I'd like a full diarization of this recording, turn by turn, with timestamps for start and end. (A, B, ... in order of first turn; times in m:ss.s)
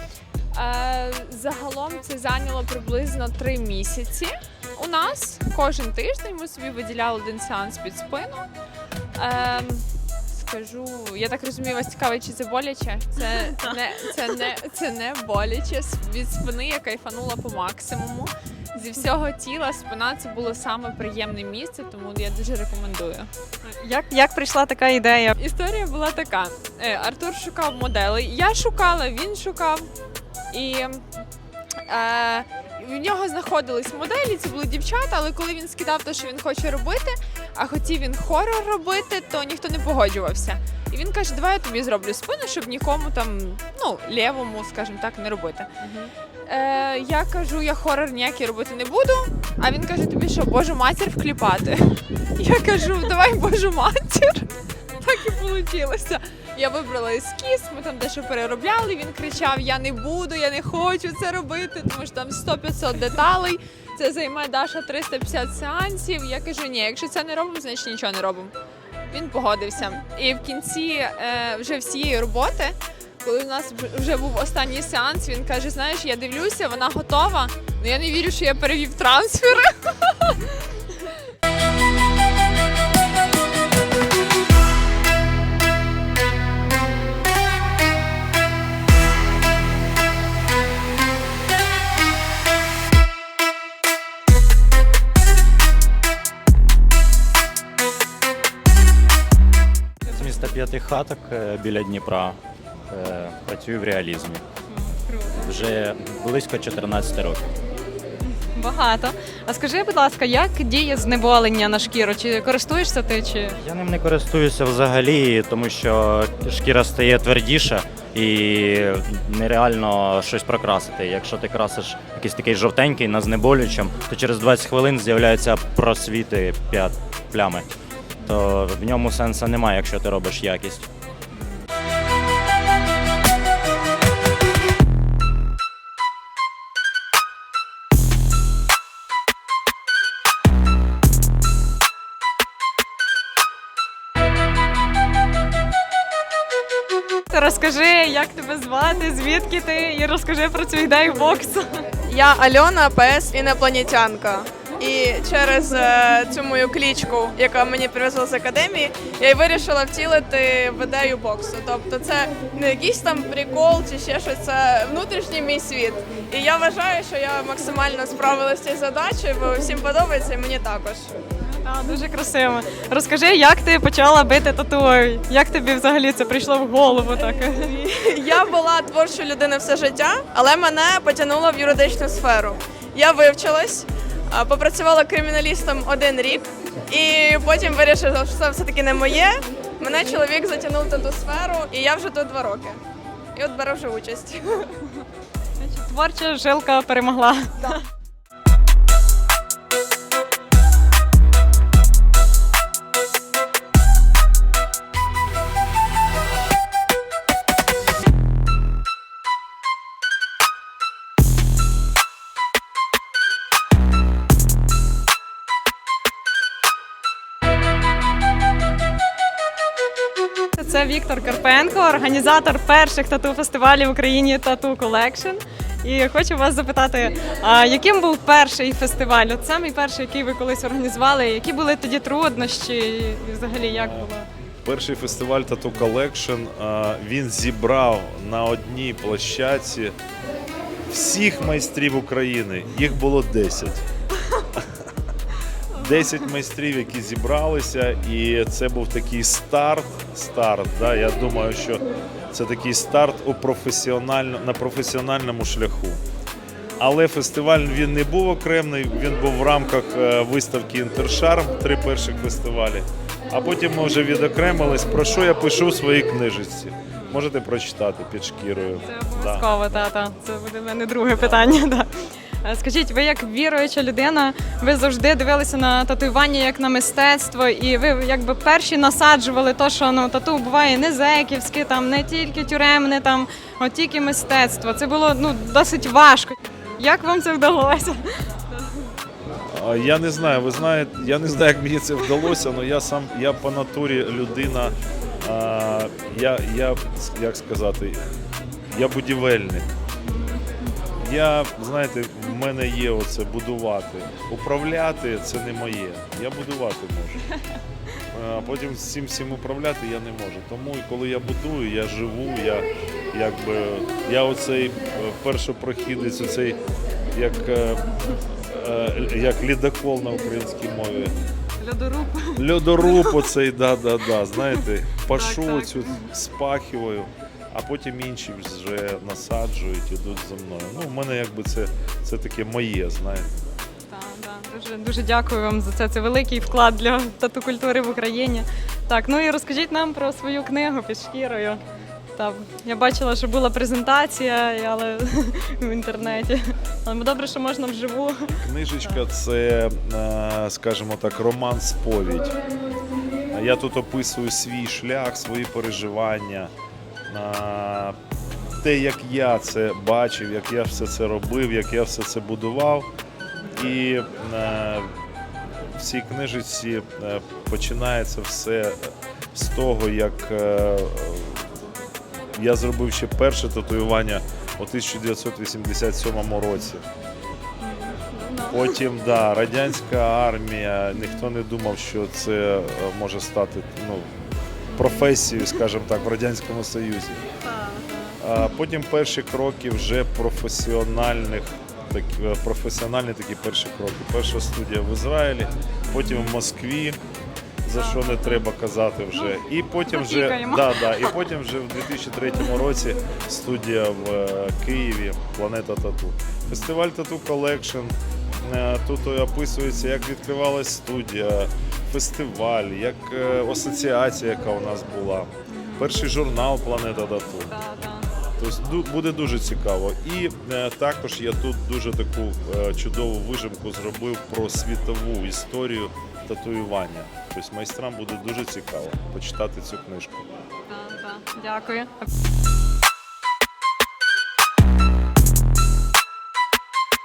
0:00.5-0:08.5 A
0:09.2-0:23.3 A
0:13.2-0:13.8 B
0:23.6-0:25.4 B
0:25.4-0:29.9 A
0:30.5-0:31.0 A
0:31.9-0:54.5 A
0:55.0-1:08.5 A
1:09.1-1:19.7 A
1:40.1-1:42.4 C
1:42.9-1:44.4 C
1:44.8-1:45.4 B
1:45.4-1:47.4 C
1:48.4-1:53.6 B
1:53.6-2:07.6 C
2:08.2-2:10.9 C
2:27.3-2:31.6 B
2:32.1-2:51.1 D
2:51.5-2:57.7 B
2:57.5-3:12.8 D
3:13.4-3:14.7 D
3:15.6-3:17.8 B
3:40.6-3:54.3 B
3:53.7-3:54.1 E
3:54.6-4:00.0 E
4:00.9-4:03.8 E
4:05.8-4:16.0 E
4:05.8-4:06.1 B
4:16.8-4:29.5 E
4:28.8-4:31.9 B
4:31.2-4:31.4 E
4:32.4-4:48.0 B
4:49.5-4:58.0 E
4:58.7-4:59.7 E
5:01.0-5:07.2 E
5:08.1-5:16.6 E
5:17.1-5:17.8 E
5:18.6-5:21.1 E
5:21.6-5:23.2 B
5:22.4-5:33.4 E
5:25.1-5:26.1 B
5:33.9-5:41.6 B
5:42.2-5:49.0 B
5:48.4-5:52.4 E
5:53.3-5:56.5 E
5:57.1-5:58.0 E
5:58.6-6:02.9 E
6:03.6-6:05.0 E
6:05.6-6:11.5 E
6:12.4-6:16.8 E
6:17.6-6:18.6 B
6:18.5-6:24.2 E
6:24.7-6:25.1 B
6:24.7-6:27.2 E
6:27.4-6:28.2 B
6:28.2-6:37.0 E
6:35.9-6:36.4 B
6:37.6-6:57.6 E
6:37.8-6:38.4 B
6:39.9-6:41.1 B
6:55.5-6:55.9 B
6:57.5-6:58.1 B
6:58.4-7:10.3 E
7:10.7-7:12.1 B